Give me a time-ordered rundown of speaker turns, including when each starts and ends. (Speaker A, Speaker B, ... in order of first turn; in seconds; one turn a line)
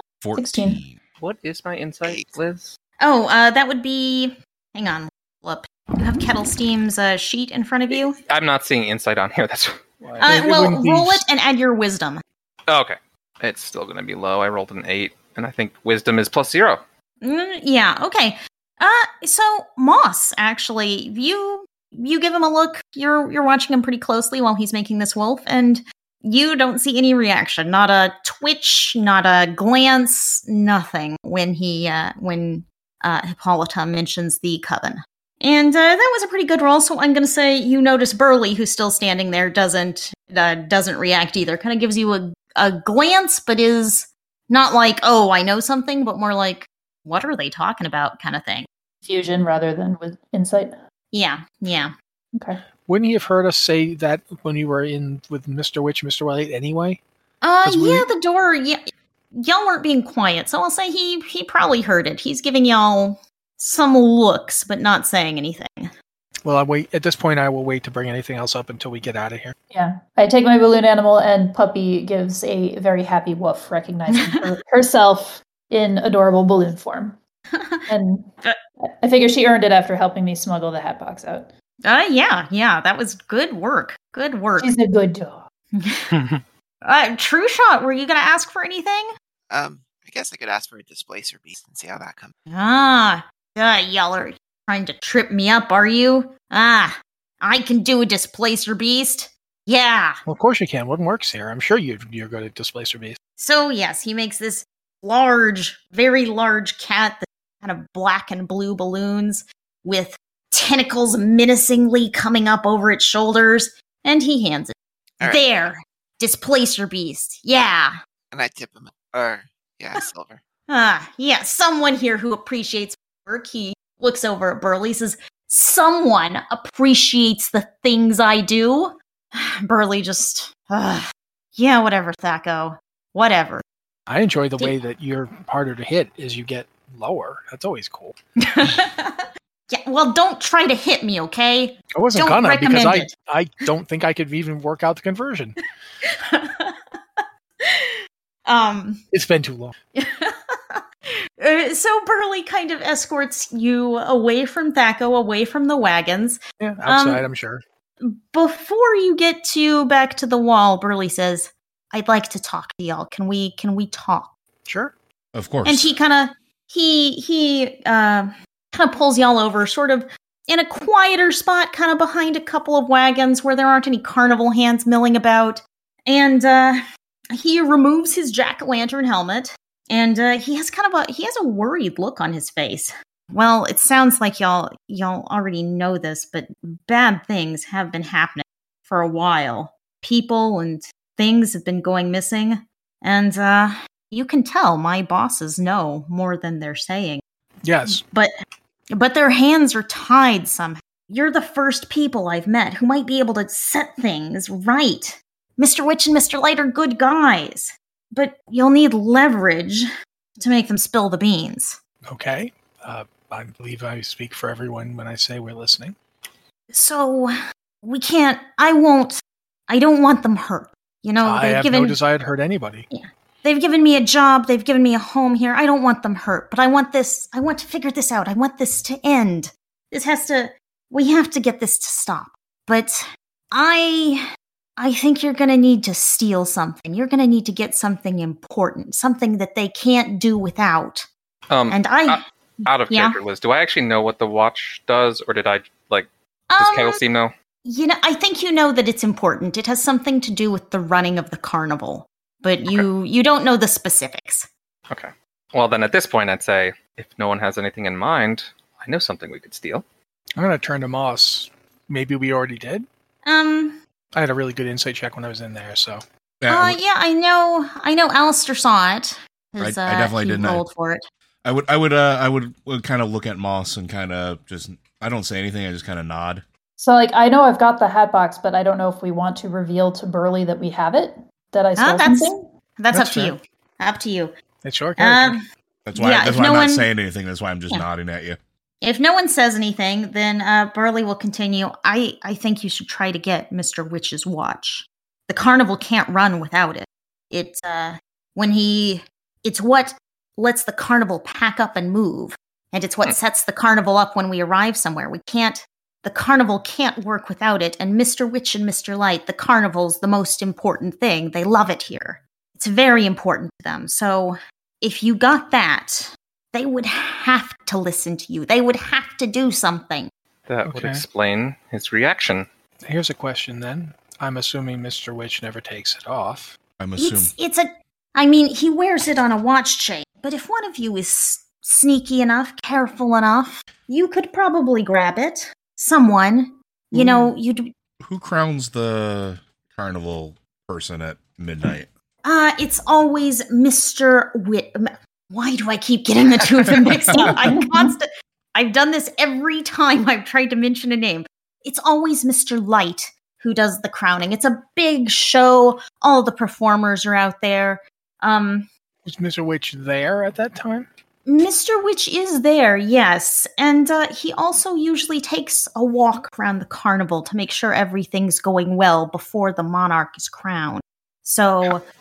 Speaker A: 0.2-1.0
Speaker B: 0.3-0.8
Speaker C: 1.2-2.8
Speaker D: 2.0-2.4
Speaker E: 3.0-8.2
Speaker C: 8.2-10.3
Speaker F: 10.0-11.2
Speaker E: 10.2-12.2
Speaker C: 12.7-16.8
Speaker E: 17.2-48.7
Speaker B: 49.0-50.8
Speaker E: 51.1-51.9
Speaker B: 52.3-52.6
Speaker F: 52.9-57.0
Speaker E: 57.4-58.8
Speaker F: 57.6-58.1
Speaker E: 59.3-65.9
Speaker F: 66.4-69.5
Speaker B: 69.7-77.2
Speaker E: 74.1-74.5
Speaker E: 77.5-77.8
Speaker B: 77.9-78.3
Speaker B: 79.0-81.5
Speaker E: 81.8-84.7
Speaker B: 84.6-85.4
Speaker E: 85.7-86.2
Speaker E: 86.8-89.1
Speaker D: 89.5-92.3
Speaker E: 92.5-100.2
Speaker F: 100.2-103.2
Speaker E: 103.4-117.9
Speaker D: 118.3-120.4
Speaker E: 120.7-131.0
Speaker E: 131.5-133.6
Speaker F: 134.1-138.1
Speaker E: 138.4-143.1
Speaker F: 141.9-145.6
Speaker E: 146.0-149.0
Speaker F: 149.1-149.7
Speaker E: 149.9-150.8
Speaker E: 151.4-157.3
Speaker F: 156.6-157.6
Speaker E: 158.0-164.3
Speaker F: 164.7-164.9
Speaker A: 165.3-165.9
Speaker E: 165.6-176.8
Speaker E: 177.3-197.2
Speaker F: 197.6-198.0
Speaker E: 197.9-198.3
Speaker E: 198.9-211.8
Speaker F: 212.1-215.9
Speaker E: 216.7-222.0
Speaker F: 221.2-222.8
Speaker E: 222.9-234.2
Speaker E: 234.8-241.1
Speaker C: 241.5-247.3
Speaker E: 241.7-242.2
Speaker E: 242.9-243.2
Speaker E: 246.5-247.0
Speaker E: 247.6-254.5
Speaker C: 254.9-259.8
Speaker F: 260.4-262.9
Speaker E: 263.2-263.8
Speaker F: 264.1-266.0
Speaker A: 266.4-266.8
Speaker E: 266.5-271.0
Speaker A: 269.6-270.6
Speaker A: 271.4-276.4
Speaker B: 276.8-282.3
Speaker E: 281.8-284.3
Speaker F: 282.9-283.3
Speaker F: 284.6-285.4
Speaker E: 285.0-285.4
Speaker A: 285.9-288.4
Speaker E: 286.0-286.9
Speaker E: 288.8-320.1
Speaker C: 320.5-322.5
Speaker F: 320.6-321.1
Speaker F: 322.8-326.6
Speaker A: 326.8-327.3
Speaker E: 327.0-337.7
Speaker F: 337.0-337.3
Speaker A: 338.0-341.9
Speaker E: 342.2-358.7
Speaker B: 347.1-347.9
Speaker F: 359.1-360.9
Speaker E: 361.2-371.8